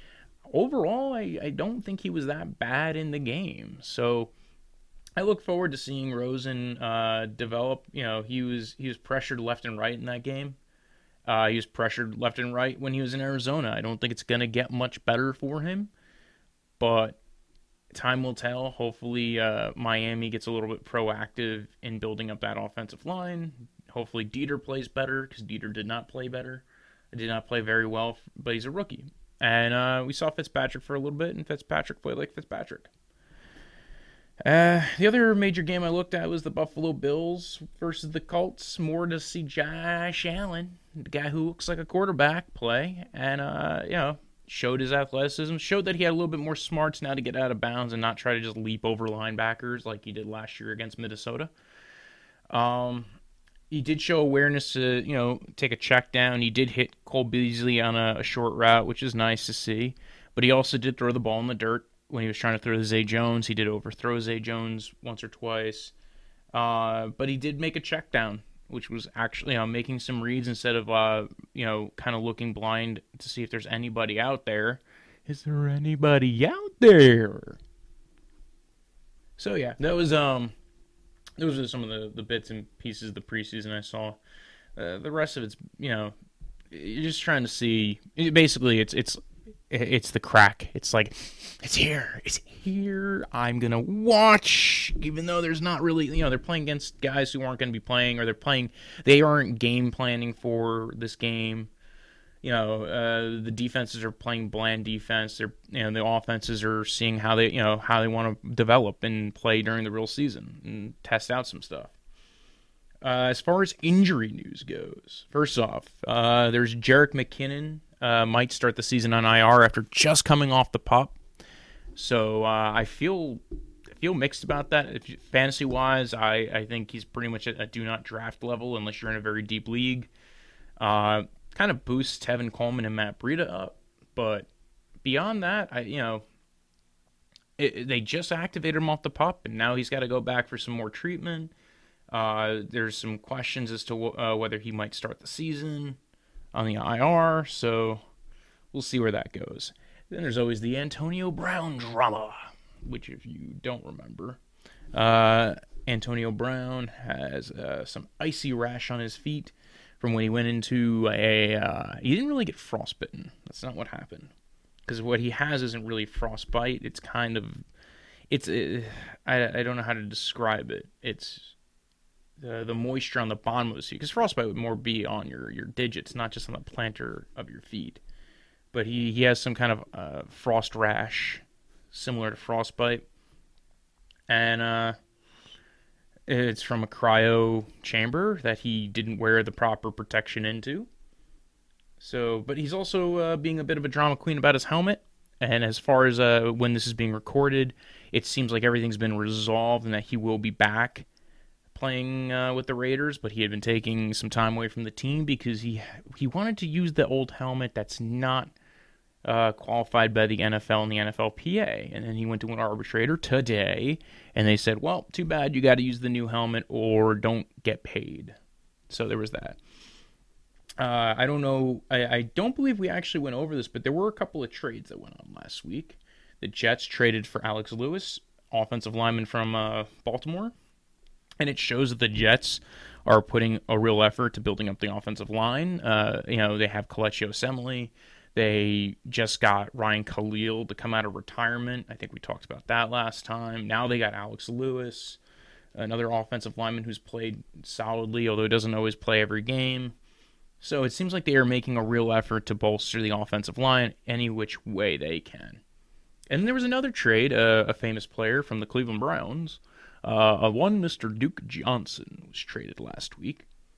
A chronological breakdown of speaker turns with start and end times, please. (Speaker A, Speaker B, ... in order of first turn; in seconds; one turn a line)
Speaker A: 0.5-4.3
Speaker A: 5.2-10.6
Speaker A: 11.2-15.9
Speaker A: 16.8-17.2
Speaker A: 17.9-32.9
Speaker A: 34.4-51.5
Speaker A: 52.5-53.1
Speaker A: 53.7-65.9
Speaker A: 66.5-77.6
Speaker A: 79.4-80.5
Speaker A: 81.4-84.2
Speaker A: 84.8-86.1
Speaker A: 86.7-101.7
Speaker A: 102.4-111.9
Speaker A: 113.0-121.2
Speaker A: 122.0-123.4
Speaker A: 124.0-130.1
Speaker A: 130.8-134.5
Speaker A: 135.0-136.2
Speaker A: 137.6-141.5
Speaker A: 142.1-146.0
Speaker A: 146.5-148.0
Speaker A: 148.7-154.4
Speaker A: 154.9-164.3
Speaker A: 164.8-167.6
Speaker A: 168.3-171.5
Speaker A: 172.4-178.0
Speaker A: 178.7-183.0
Speaker A: 184.3-184.9
Speaker A: 186.3-190.9
Speaker A: 192.0-201.1
Speaker A: 201.7-208.5
Speaker A: 209.2-218.3
Speaker A: 218.9-219.6
Speaker A: 220.8-230.5
Speaker A: 231.4-245.2
Speaker A: 245.7-249.9
Speaker A: 250.6-255.6
Speaker A: 256.3-263.4